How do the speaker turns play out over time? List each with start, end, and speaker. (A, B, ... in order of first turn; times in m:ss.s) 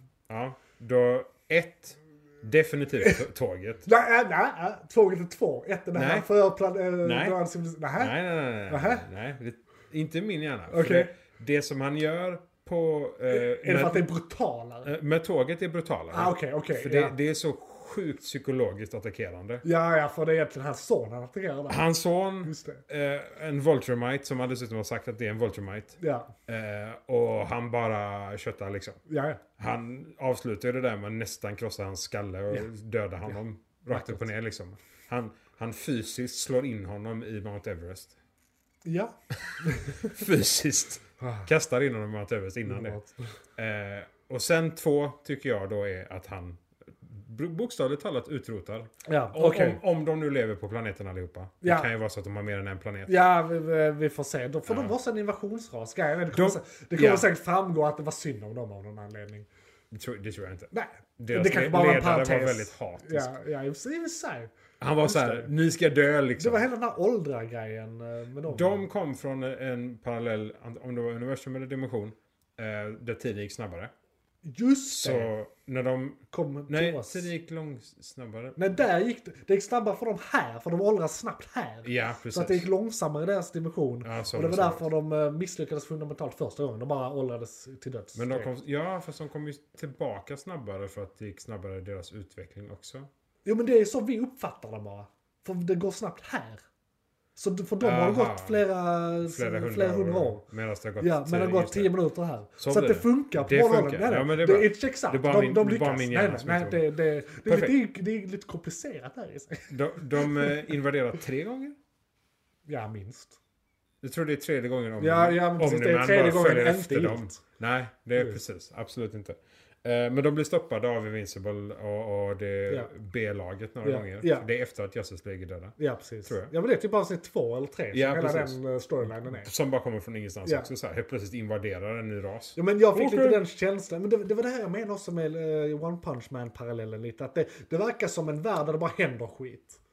0:00.3-0:03.8 A
0:03.8-0:09.0 B
0:05.9-0:06.3 A
0:07.0-0:07.4 A
0:08.0-0:14.1 A
0:10.7-0:11.1 B
0:13.3-0:14.9 B
0:14.8-0:19.6 A
0:16.1-0:17.1 B
0:19.6-0:21.8 B
0:21.7-0:26.0 A
0:22.4-0:22.8 B
0:26.0-0:26.3 B
0:26.5-0:29.0 A
0:29.1-0:29.4 B
0:29.6-0:38.1 A
0:33.9-0:34.3 B
0:38.8-0:40.2 B
0:39.4-0:43.0 A
0:41.2-0:41.5 B
0:42.7-0:43.1 B
0:43.6-0:53.2 A
0:49.0-0:49.8 B
0:51.6-0:51.9 B
0:53.1-0:59.5 B
0:54.7-0:54.9 A
0:56.3-0:57.3 A
0:59.9-1:03.3 A
1:00.7-1:04.5 B
1:04.8-1:06.7 A
1:05.0-1:05.5 B
1:06.4-1:08.8 B
1:08.5-1:13.9 A
1:14.4-1:15.3 B
1:14.9-1:18.6 A
1:16.3-1:17.3 B
1:18.6-1:28.5 B
1:21.8-1:22.7 A
1:24.0-1:24.8 A
1:28.1-1:33.1 A
1:33.4-1:36.6 B
1:37.4-1:40.4 B
1:37.8-1:38.6 A
1:39.2-1:41.9 A
1:41.0-1:50.6 B
1:42.6-1:46.8 A
1:47.4-1:47.8 A
1:49.7-1:51.8 A
1:52.7-1:53.4 B
1:54.0-2:06.5 A
1:55.0-1:57.4 B
2:03.8-2:04.5 B
2:05.8-2:09.5 B
2:07.9-2:13.4 A
2:12.6-2:19.8 B